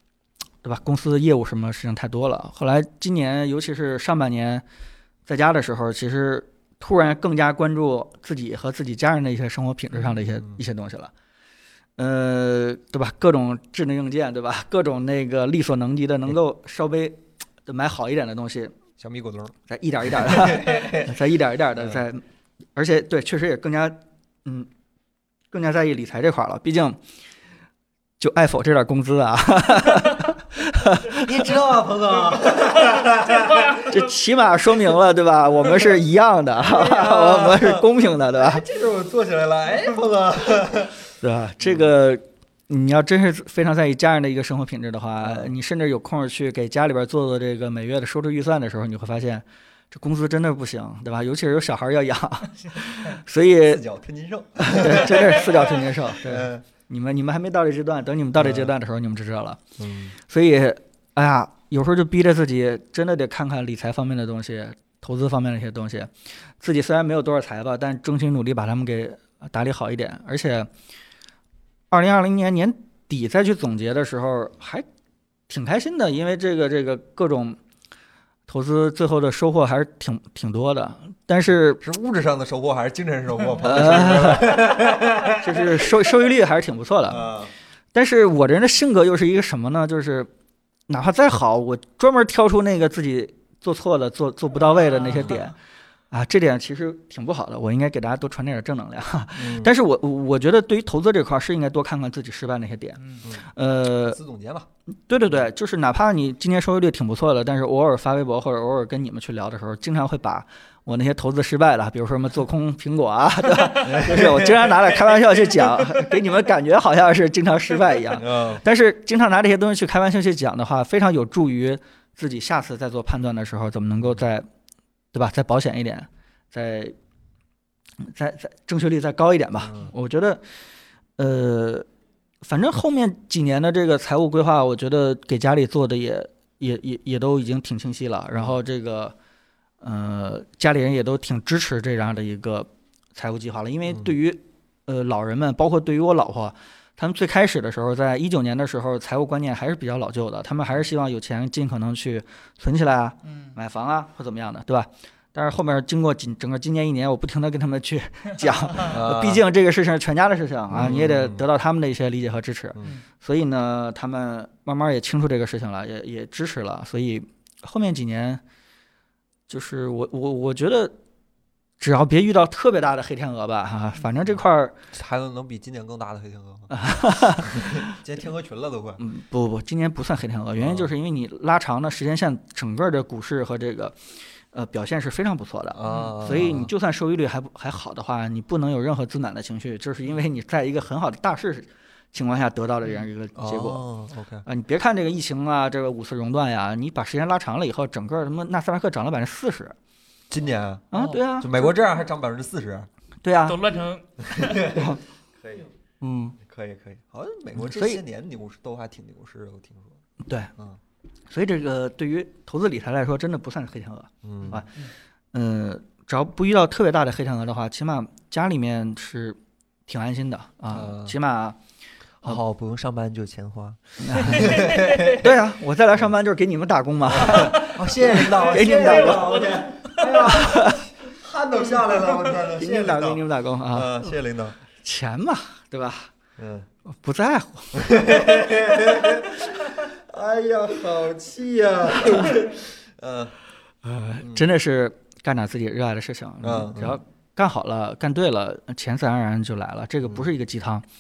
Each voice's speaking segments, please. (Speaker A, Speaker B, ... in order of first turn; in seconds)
Speaker A: 0.6-4.6, 5.2-11.1, 12.0-18.8, 19.7-22.2, 22.7-24.7, 25.5-27.0, 28.2-31.5, 33.8-38.6, 41.2-53.8, 54.6-59.6, 60.3-70.7, 71.9-74.8, 75.5-77.6, 78.5-81.8, 83.6-84.6, 85.4-87.2, 87.9-90.3, 90.9-95.5, 96.1-104.2, 105.1-124.5, 125.1-127.0, 128.0-130.4, 131.2-131.8, 132.4-139.1, 139.8-168.4, 169.5-170.9, 171.8-174.7, 176.7-177.9, 179.0-183.9, 184.5-193.8, 194.4-199.7, 200.9-201.7, 203.2-203.7, 204.6-205.0, 206.0-206.4, 207.7-208.0, 210.2-210.5, 211.3-221.6, 224.0-229.5, 230.2-230.8, 232.5-234.1, 234.7-236.1, 236.9-238.4, 243.8-250.8
Speaker B: 19.0-19.6, 20.1-21.1, 31.1-33.8, 36.6-41.0, 41.6-41.9, 45.2-45.5, 53.6-56.6, 58.4-58.7, 59.8-60.1, 81.8-86.1, 87.1-87.5, 99.3-99.7, 103.2-104.7, 113.8-115.1, 118.2-118.6, 158.9-159.4, 160.7-161.4, 174.9-176.7, 177.4-179.0, 180.6-180.9, 185.7-186.7, 193.3-194.4, 200.3-202.9, 204.3-205.7, 206.4-210.0, 214.2-214.6, 220.7-221.1, 222.2-225.3, 227.1-234.6, 236.4-236.7, 237.7-243.3, 244.2-244.4, 246.4-247.0, 250.0-250.3
Speaker C: 33.4-33.8, 95.1-95.5, 153.2-153.6, 185.9-186.2, 203.4-204.7, 224.5-225.0, 228.6-230.1